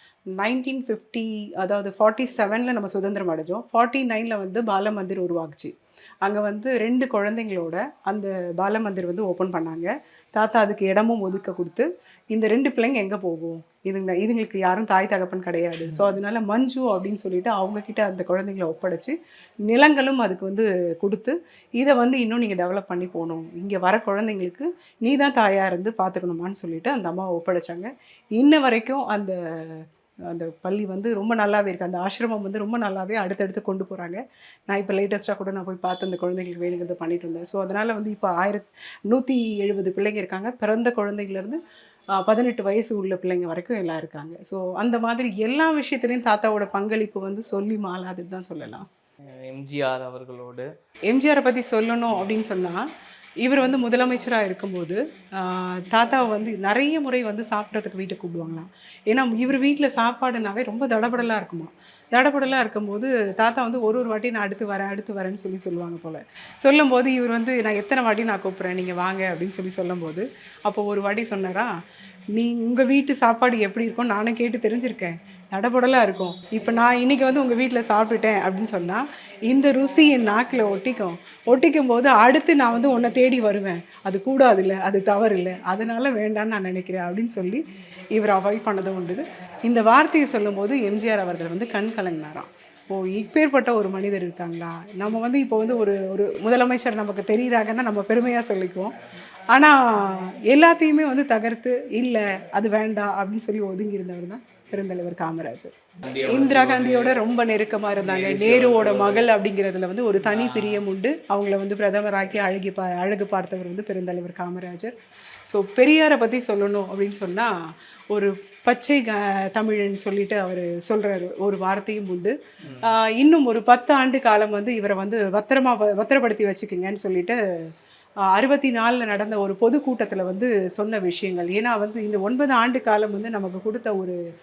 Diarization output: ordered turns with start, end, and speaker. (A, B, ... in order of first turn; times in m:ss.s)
0:00.4-0:19.2 A
0:19.7-0:41.6 A
0:42.1-0:48.9 A
0:49.4-0:50.7 B
0:51.1-0:52.9 A
0:53.4-1:11.7 A
1:12.3-1:39.0 A
1:39.5-1:45.7 A
1:46.0-1:47.2 B
1:46.3-1:55.0 A
1:48.0-1:49.3 B
1:50.2-1:50.8 B
1:55.5-1:57.5 A
1:58.1-2:07.4 A
2:02.6-2:02.9 B
2:08.2-2:14.2 A